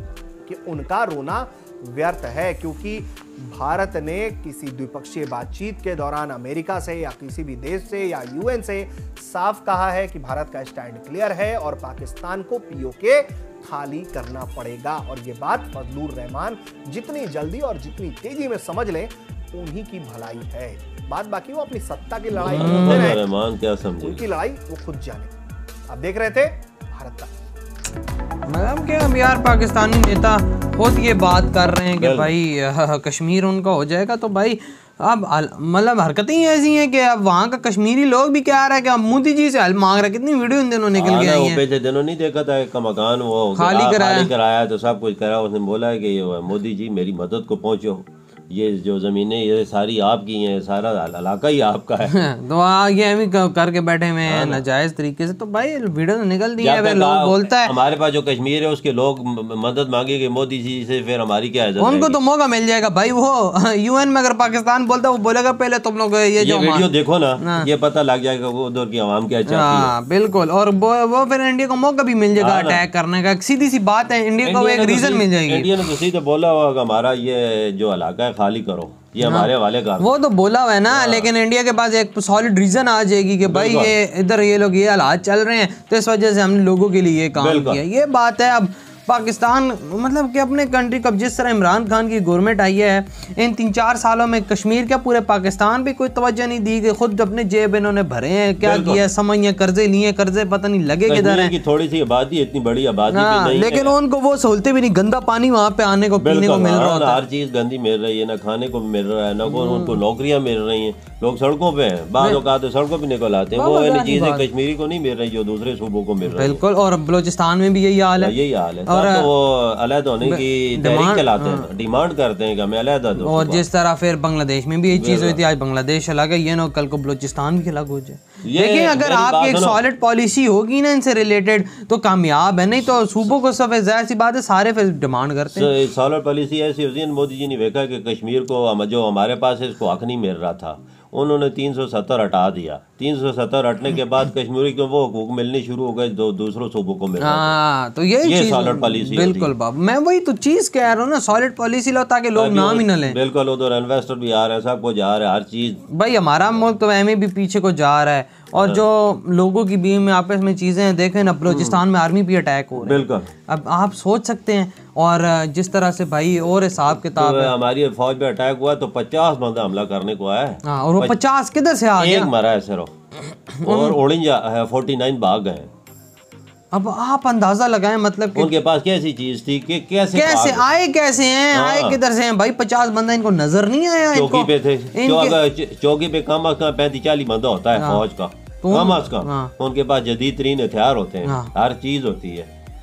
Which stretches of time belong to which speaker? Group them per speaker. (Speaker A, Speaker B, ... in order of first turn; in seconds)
Speaker A: 0.5-23.2, 24.0-25.3, 25.9-27.3
Speaker B: 22.4-24.2, 32.0-32.3, 40.9-52.1, 54.2-54.6, 56.6-62.2, 66.4-70.0, 72.4-72.8, 74.4-80.1, 80.9-81.3, 83.5-84.0, 87.4-87.8, 98.6-99.0, 101.1-104.0, 106.2-116.6, 118.2-123.7, 124.9-125.4, 128.4-129.8, 132.7-133.4, 135.5-147.6, 148.2-149.5, 152.3-155.8, 158.6-158.8, 161.4-161.8, 162.8-163.3, 167.2-171.2, 172.0-172.9, 173.6-175.7, 178.3-180.7, 181.5-182.0, 184.1-192.5
Speaker C: 22.4-23.2, 28.5-41.6, 43.5-44.3, 52.0-57.7, 61.8-67.7, 69.5-75.8, 79.2-101.6, 103.1-107.2, 109.5-110.0, 113.5-114.5, 116.3-119.3, 120.2-121.7, 123.2-135.7, 147.2-153.2, 155.9-167.6, 170.6-172.3, 173.2-174.0, 176.7-178.6, 180.1-185.4, 187.8-188.0, 188.6-189.5, 191.2-191.5